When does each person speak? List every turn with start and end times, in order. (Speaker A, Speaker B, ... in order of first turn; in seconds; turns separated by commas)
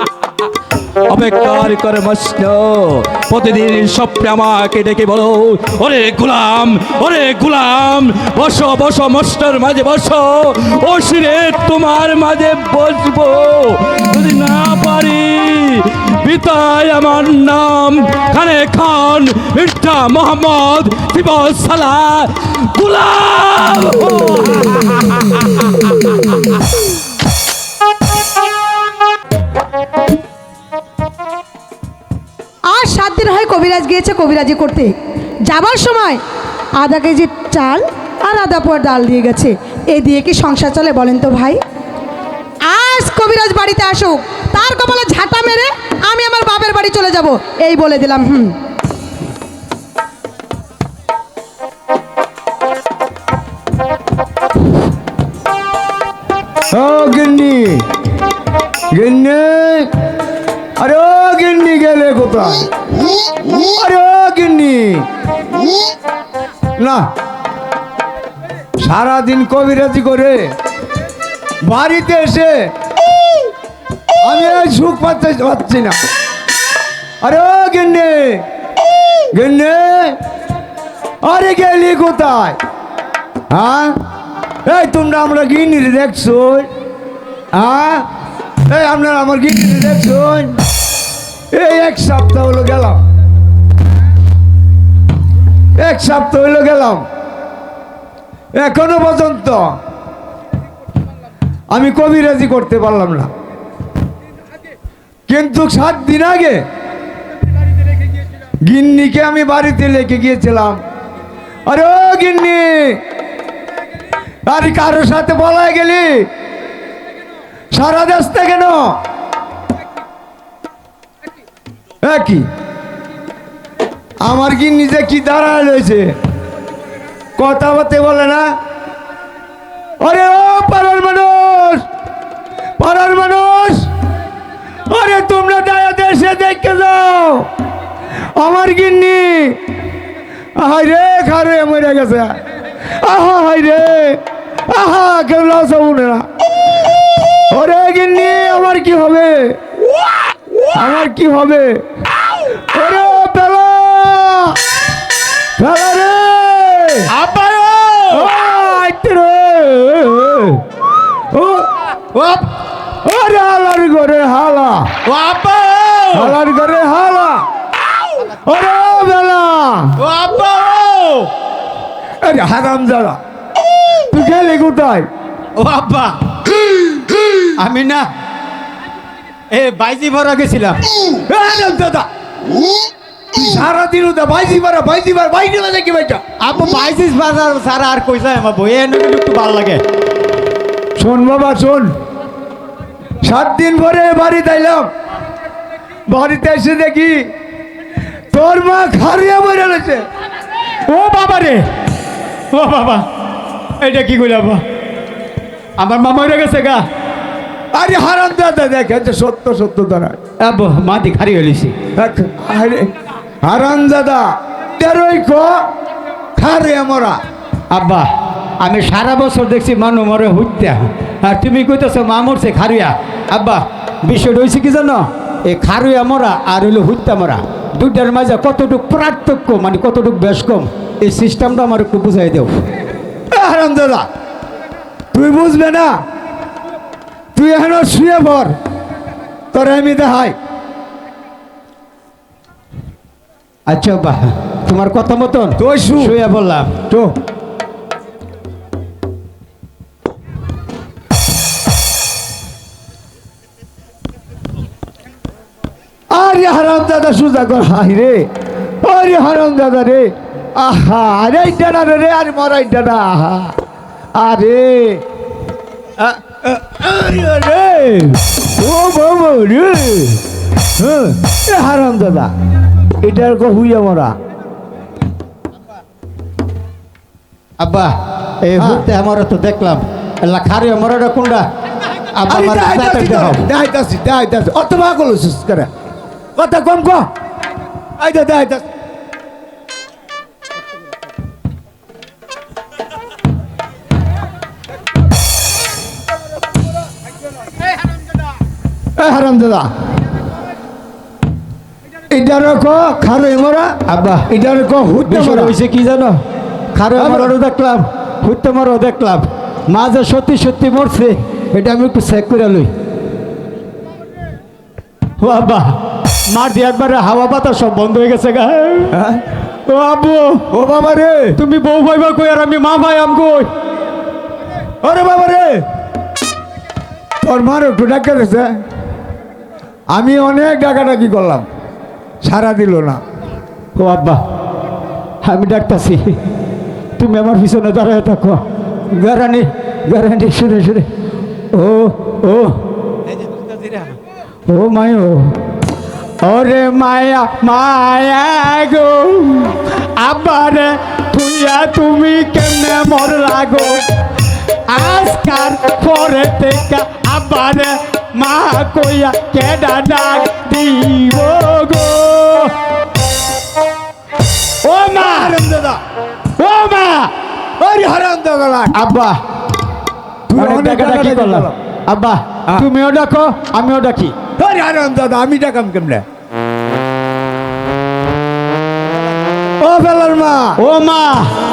Speaker A: 1.1-26.4, Speaker B: 32.7-34.9, Speaker B: 35.5-36.2, Speaker B: 36.8-41.6, Speaker B: 42.7-48.5, Speaker C: 56.7-57.9, Speaker C: 58.9-59.9, Speaker C: 60.8-62.7, Speaker C: 63.5-65.0, Speaker C: 66.8-67.1, Speaker C: 68.8-70.4, Speaker C: 71.6-72.7, Speaker C: 74.2-76.0, Speaker C: 77.2-78.4, Speaker C: 79.3-80.2, Speaker C: 81.2-82.6, Speaker C: 83.5-84.0, Speaker C: 84.6-86.7, Speaker C: 87.5-88.0, Speaker C: 88.7-90.6, Speaker C: 91.5-93.0, Speaker C: 95.8-97.0, Speaker C: 98.5-99.8, Speaker C: 101.7-103.3, Speaker C: 105.3-106.6, Speaker C: 108.7-110.8, Speaker C: 111.7-113.0, Speaker C: 114.5-116.3, Speaker C: 117.7-119.0, Speaker C: 122.0-122.5, Speaker C: 124.2-126.1, Speaker C: 127.4-128.5, Speaker C: 130.0-131.8, Speaker C: 132.8-133.9, Speaker C: 134.9-137.5, Speaker C: 138.4-139.6, Speaker C: 140.6-142.4, Speaker C: 143.0-146.2, Speaker C: 147.5-149.6, Speaker C: 150.7-151.8, Speaker C: 152.6-154.6, Speaker C: 155.6-157.1, Speaker D: 157.1-158.3, Speaker C: 158.1-160.6, Speaker C: 161.3-161.7, Speaker D: 162.1-162.5, Speaker C: 163.0-164.9, Speaker D: 165.1-166.3, Speaker C: 166.1-167.4, Speaker C: 168.4-169.9, Speaker D: 170.0-171.3, Speaker C: 172.2-173.2, Speaker C: 174.1-175.1, Speaker D: 175.6-176.2, Speaker D: 177.6-178.1, Speaker D: 179.5-180.8, Speaker C: 181.3-182.1, Speaker C: 183.3-186.2, Speaker D: 186.4-189.8, Speaker C: 191.0-191.9, Speaker C: 193.2-194.9, Speaker C: 196.1-197.2, Speaker C: 198.3-200.1, Speaker D: 200.9-201.7, Speaker D: 202.5-203.1, Speaker D: 203.8-204.6, Speaker D: 205.8-206.8, Speaker C: 207.7-210.2, Speaker D: 210.4-211.8, Speaker C: 211.9-212.9, Speaker C: 213.4-215.6, Speaker C: 216.4-217.2, Speaker D: 217.7-232.5, Speaker C: 233.3-234.1, Speaker C: 235.1-236.0, Speaker C: 237.3-238.6, Speaker C: 239.5-240.4, Speaker D: 243.7-246.8, Speaker C: 245.6-246.2, Speaker C: 256.1-258.3, Speaker C: 258.8-263.5, Speaker C: 264.1-265.0, Speaker C: 266.0-270.2, Speaker C: 270.8-272.3, Speaker C: 273.0-274.1, Speaker D: 277.6-281.4, Speaker C: 278.6-278.9, Speaker D: 282.1-283.5, Speaker C: 282.3-285.7, Speaker C: 286.4-287.1, Speaker C: 288.0-288.7, Speaker C: 299.0-299.7, Speaker C: 302.1-303.8, Speaker D: 303.9-304.3, Speaker C: 304.2-305.5, Speaker D: 305.1-306.2, Speaker D: 306.7-312.7, Speaker C: 306.9-307.3, Speaker D: 315.2-315.8, Speaker D: 316.3-318.9, Speaker C: 318.9-319.2, Speaker D: 319.7-320.4, Speaker C: 320.5-321.4, Speaker D: 321.4-323.5, Speaker C: 324.8-325.6, Speaker C: 327.2-328.5, Speaker C: 329.9-331.4, Speaker C: 332.2-333.0, Speaker D: 333.8-334.2, Speaker D: 335.2-336.2, Speaker D: 337.0-340.9, Speaker D: 341.5-342.6, Speaker D: 344.5-345.3, Speaker D: 346.2-353.8, Speaker D: 354.7-362.5, Speaker D: 364.6-365.4, Speaker C: 364.9-365.8, Speaker D: 366.4-367.1, Speaker C: 367.6-368.8, Speaker D: 368.7-369.2, Speaker C: 370.3-371.5, Speaker D: 370.3-374.1, Speaker C: 374.4-376.0, Speaker C: 379.6-380.6, Speaker D: 380.6-381.3